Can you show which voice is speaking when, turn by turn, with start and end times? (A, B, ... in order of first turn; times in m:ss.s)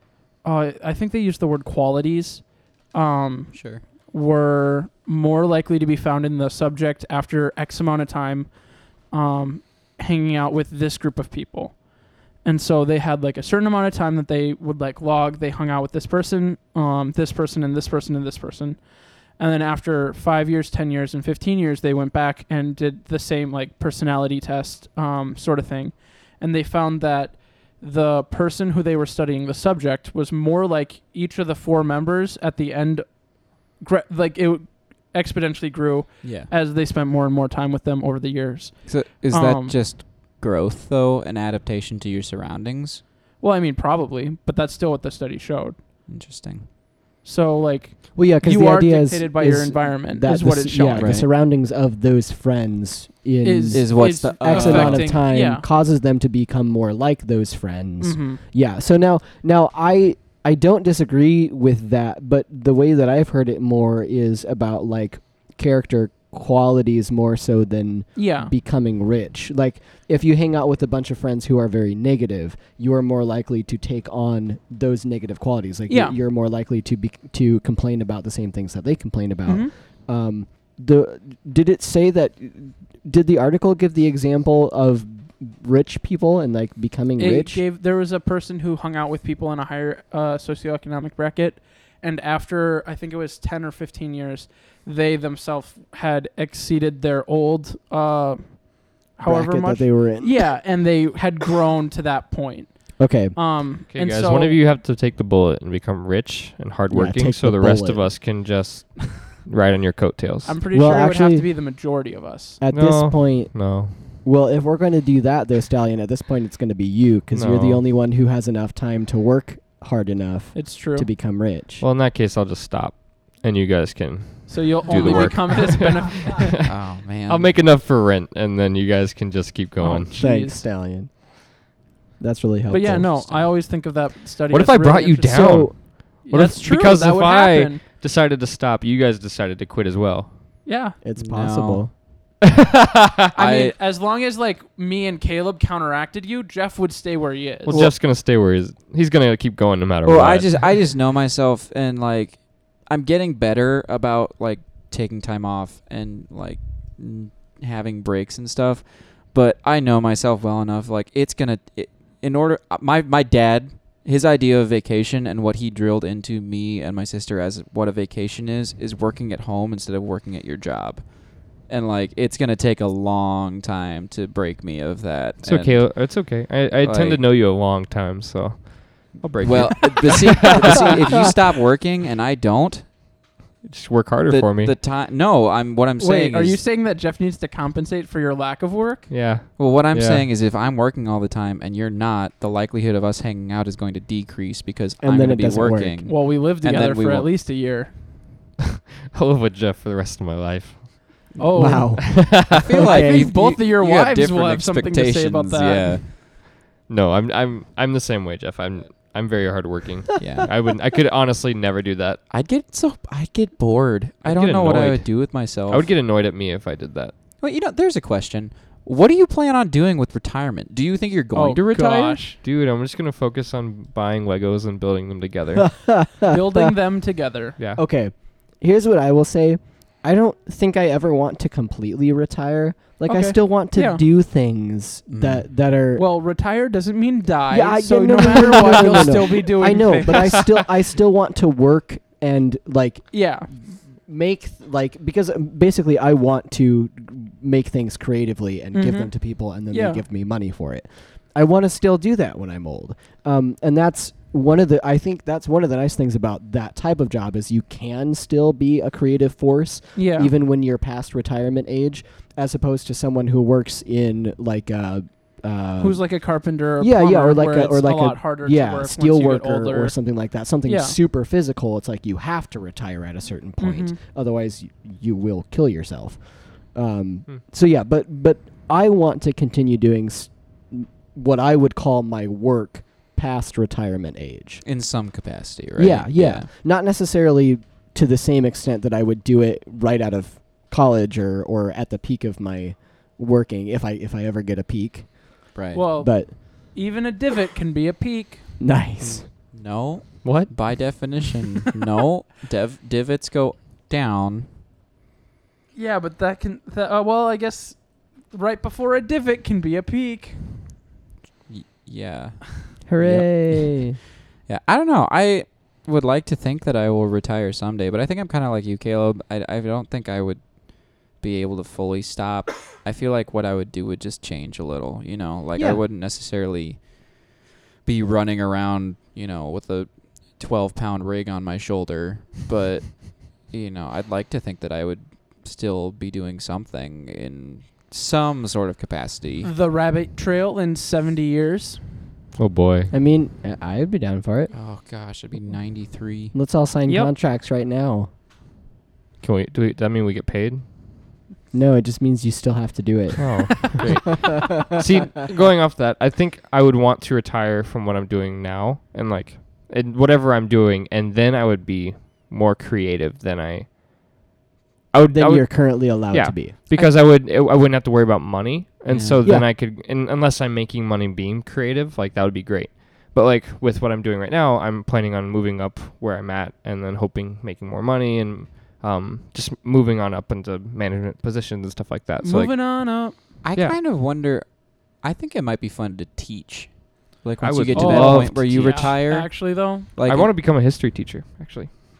0:00.4-0:39.8 A
0:03.5-0:03.8 B
0:36.2-0:36.5 B
0:38.8-0:43.0 B
0:43.4-0:45.8 A
0:46.1-0:46.7 B
0:47.2-0:51.1 A
0:48.1-1:27.6 C
0:51.0-0:51.3 B
0:53.4-0:55.6 A
0:53.7-0:55.1 B
0:58.0-0:58.4 A
1:08.1-1:08.5 A
1:15.9-1:16.2 A
1:19.4-1:19.7 A
1:27.2-1:44.6 A
1:39.2-1:40.6 C
1:43.0-1:43.5 C
1:43.9-1:50.6 D
1:46.9-1:48.2 C
1:50.4-1:52.6 A
1:50.7-1:51.5 C
1:52.6-2:01.8 C
1:52.7-1:54.0 D
1:57.3-1:57.8 D
2:00.5-2:01.1 A
2:01.8-2:10.1 D
2:04.5-2:06.5 A
2:06.6-2:07.6 B
2:09.8-2:10.6 A
2:10.1-2:11.6 C
2:12.2-2:13.2 C
2:12.7-2:17.8 A
2:14.5-2:20.4 D
2:15.3-2:15.8 C
2:20.6-2:21.0 A
2:21.0-2:21.9 C
2:21.2-2:21.8 B
2:22.6-2:23.3 D
2:23.3-2:27.8 A
2:23.4-2:23.7 B
2:27.6-2:30.7 D
2:27.7-2:27.9 B
2:30.0-2:57.2 B
2:55.4-3:01.3 D
2:59.4-3:02.9 B
3:03.6-3:04.7 D
3:04.3-3:06.6 B
3:06.0-3:09.1 A
3:09.1-3:10.3 D
3:09.6-3:17.3 B
3:15.0-3:16.0 C
3:16.0-3:18.0 A
3:19.1-3:21.3 D
3:21.4-3:22.0 A
3:21.6-3:23.4 C
3:22.0-3:22.8 D
3:22.6-3:26.2 B
3:22.8-3:26.0 A
3:26.9-3:32.2 D
3:30.2-3:30.5 B
3:32.3-3:35.9 B
3:34.2-3:37.1 D
3:37.4-3:42.2 B
3:41.3-3:42.4 A
3:42.4-3:45.7 D
3:45.6-3:46.7 C
3:46.3-3:47.6 A
3:47.8-3:56.0 C
3:53.0-3:54.0 A
3:55.1-3:55.5 B
3:55.9-4:00.6 A
3:57.5-4:26.2 C
4:03.1-4:03.5 A
4:08.7-4:10.0 A
4:19.9-4:20.3 A
4:25.8-4:30.0 A
4:26.8-4:44.6 C
4:30.6-4:31.0 A
4:33.6-4:34.0 A
4:44.6-4:46.5 B
4:45.8-4:56.4 C
4:55.5-4:55.9 B
4:55.7-4:58.6 A
4:58.6-4:59.3 C
4:59.0-5:04.5 B
5:00.2-5:01.0 D
5:05.7-5:10.8 A
5:11.5-5:13.9 B
5:12.9-5:14.0 C
5:14.5-5:27.2 B
5:25.6-5:25.8 C
5:27.8-5:39.5 B
5:39.4-5:41.8 A
5:42.4-5:42.9 D
5:42.9-5:44.5 C
5:44.5-5:46.3 B
5:46.3-5:48.1 C
5:46.8-5:47.1 A
5:49.2-5:50.6 D
5:51.5-5:54.8 C
5:53.2-6:03.8 D
5:53.8-5:54.4 B
6:04.9-6:23.8 D
6:05.1-6:06.6 C
6:06.7-6:07.0 A
6:08.9-6:09.2 B
6:09.2-6:09.5 C
6:22.2-6:23.2 A
6:23.4-6:30.3 B
6:27.4-6:29.0 D
6:27.7-6:29.9 A
6:30.0-6:31.7 D